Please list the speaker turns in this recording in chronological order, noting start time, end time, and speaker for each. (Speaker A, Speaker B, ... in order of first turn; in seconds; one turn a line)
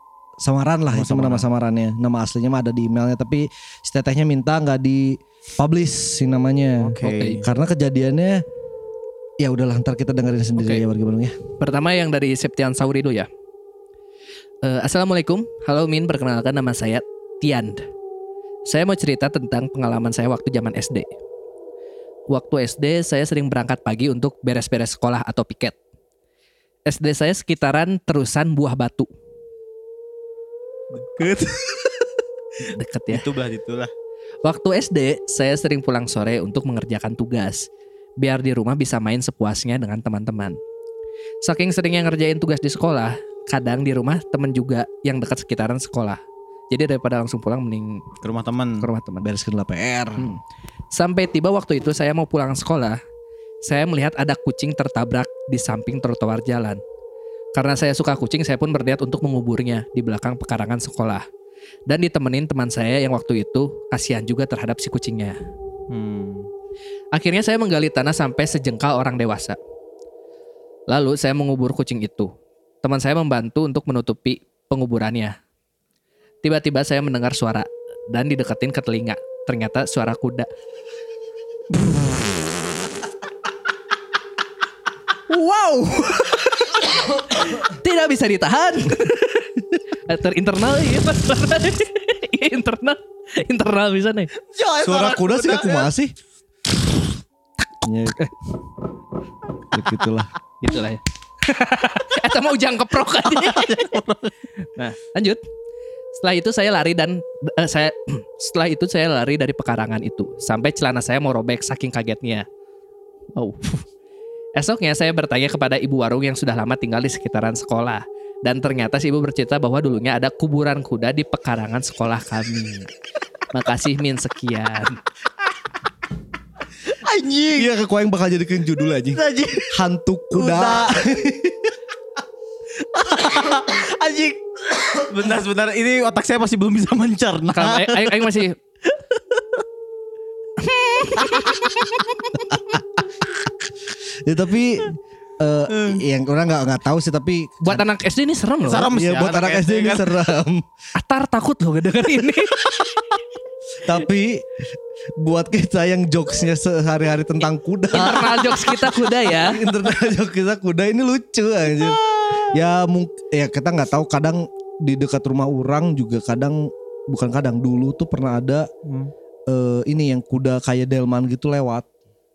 Speaker A: 0.4-8.4
Speaker B: 0.9-1.4
Speaker B: 6.8-7.4
Speaker C: 7.0-7.4
Speaker A: 9.4-11.4
Speaker C: 10.6-10.8
Speaker C: 11.6-13.3
Speaker C: 14.6-17.9
Speaker C: 18.7-21.1
Speaker C: 22.3-25.8
Speaker C: 26.9-29.1
Speaker B: 30.9-32.1
Speaker C: 32.7-33.3
Speaker B: 33.1-33.9
Speaker C: 34.4-37.7
Speaker C: 38.2-40.6
Speaker C: 41.4-48.1
Speaker B: 48.2-48.9
Speaker C: 48.8-49.3
Speaker A: 49.2-50.3
Speaker C: 50.9-53.0
Speaker C: 53.6-56.8
Speaker C: 57.6-61.3
Speaker C: 61.9-65.4
Speaker B: 65.9-66.5
Speaker C: 67.1-69.6
Speaker C: 70.9-72.3
Speaker C: 72.8-75.3
Speaker C: 76.4-80.5
Speaker C: 85.5-94.3
Speaker B: 94.5-95.9
Speaker A: 94.8-96.1
Speaker A: 97.8-98.2
Speaker A: 99.7-100.3
Speaker C: 100.6-104.0
Speaker B: 103.2-104.3
Speaker C: 104.8-105.4
Speaker C: 106.2-112.5
Speaker C: 113.4-113.8
Speaker C: 114.6-122.9
Speaker C: 123.5-125.0
Speaker B: 126.9-127.7
Speaker A: 127.6-131.7
Speaker B: 129.1-129.8
Speaker B: 130.3-131.2
Speaker B: 132.9-138.4
Speaker C: 137.5-138.6
Speaker B: 139.1-139.6
Speaker C: 140.6-142.5
Speaker B: 141.2-142.0
Speaker A: 144.2-147.8
Speaker B: 145.7-146.0
Speaker C: 147.7-148.9
Speaker B: 148.6-150.2
Speaker A: 148.9-150.6
Speaker C: 151.0-152.7
Speaker A: 153.8-154.6
Speaker A: 155.2-168.7
Speaker C: 157.9-159.6
Speaker B: 168.8-169.1
Speaker A: 169.5-171.9